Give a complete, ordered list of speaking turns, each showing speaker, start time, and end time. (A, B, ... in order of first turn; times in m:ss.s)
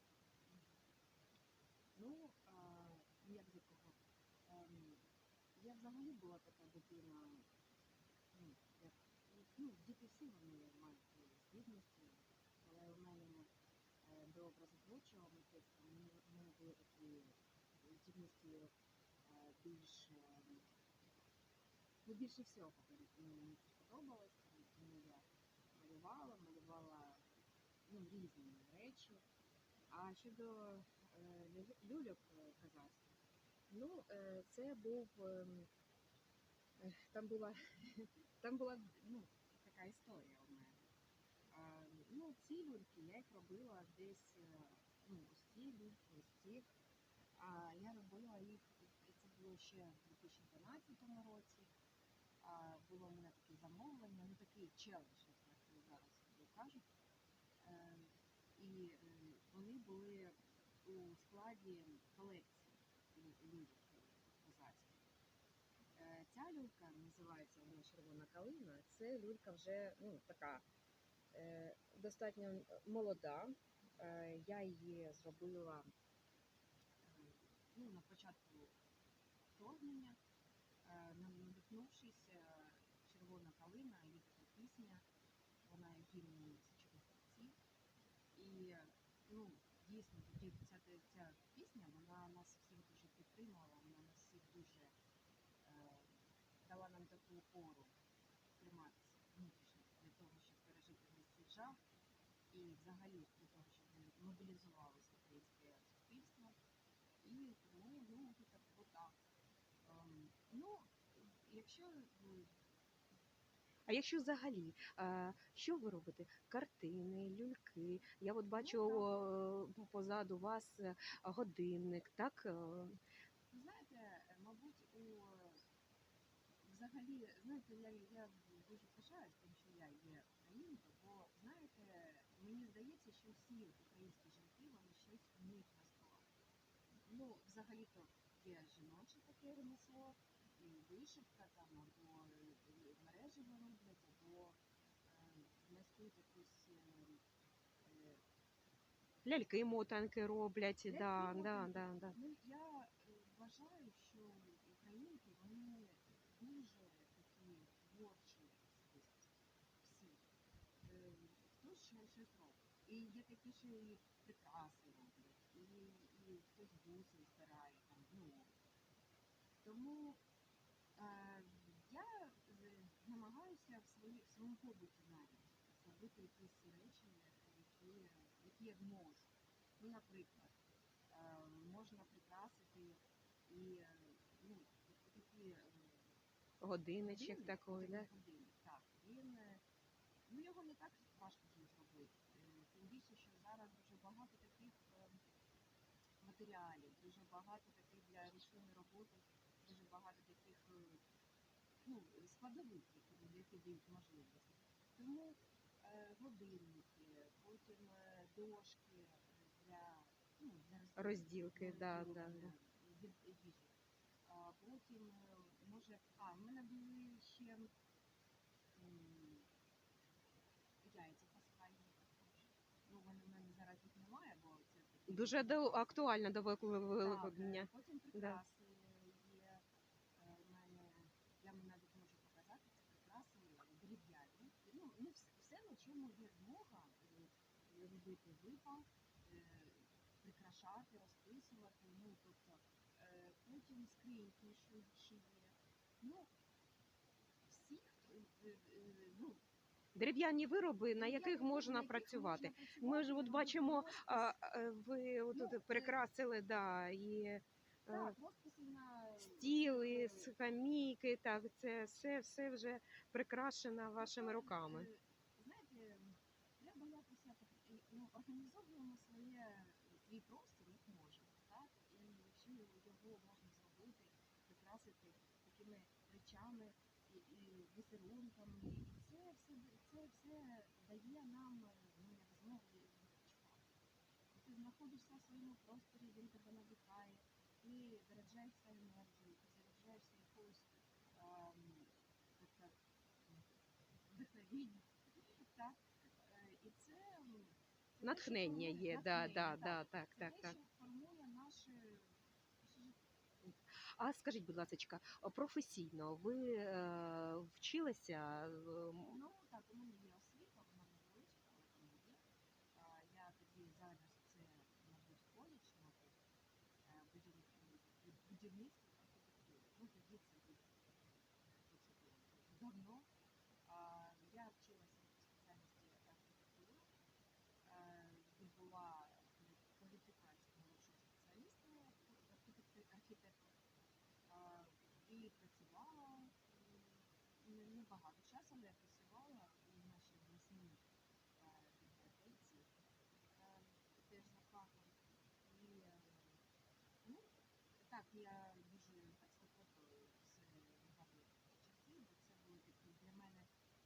0:00.4-0:00.8 A
0:02.0-0:07.5 A
0:08.3-0:20.7 A
0:22.0-0:29.2 A
0:29.9-0:35.7 A
0:36.8-0:40.9 A
0:41.5-0:46.7 A
0:47.3-0:51.7 A
0:52.4-0:56.9 A
0:57.6-1:05.1 A
1:05.9-1:10.6 A
1:11.3-1:15.9 A
1:17.0-1:18.8 A
1:19.5-1:20.2 A
1:20.8-1:25.0 A
1:25.6-1:27.6 A
1:28.3-1:34.9 A
1:35.6-1:37.9 A
1:38.6-1:41.8 A
1:42.5-1:46.6 A
1:47.2-1:49.2 A
1:49.8-1:52.6 A
1:53.9-2:03.0 B
1:58.5-1:59.2 A
2:03.5-2:05.6 A
2:06.6-2:16.3 A
2:17.0-2:27.2 A
2:27.8-2:28.2 A
2:29.2-2:32.2 B
2:30.9-2:40.3 A
2:40.8-2:48.5 A
2:49.6-2:50.2 A
2:51.0-3:00.5 A
3:01.1-3:06.2 A
3:06.6-3:08.1 B
3:07.0-3:09.6 A
3:10.3-3:15.2 A
3:16.2-3:21.0 A
3:21.8-3:37.7 A
3:31.0-3:32.5 B
3:38.7-3:39.5 A
3:40.8-3:46.0 A
3:45.1-3:48.4 B
3:46.9-3:49.6 A
3:50.2-4:06.3 A
4:07.5-4:09.4 A
4:09.9-4:18.2 B
4:10.9-4:14.4 A
4:15.3-4:16.0 A
4:17.9-4:20.4 A
4:19.2-4:24.9 B
4:24.0-4:43.7 A
4:44.3-4:53.5 A
4:54.1-5:03.0 A
4:58.0-5:00.6 B
5:03.4-5:09.2 B
5:09.0-5:16.2 A
5:16.8-5:23.1 A
5:23.6-5:26.9 A
5:27.6-5:33.5 A
5:34.3-5:40.8 A
5:41.4-5:42.7 A
5:43.3-5:46.4 A
5:47.0-5:53.5 A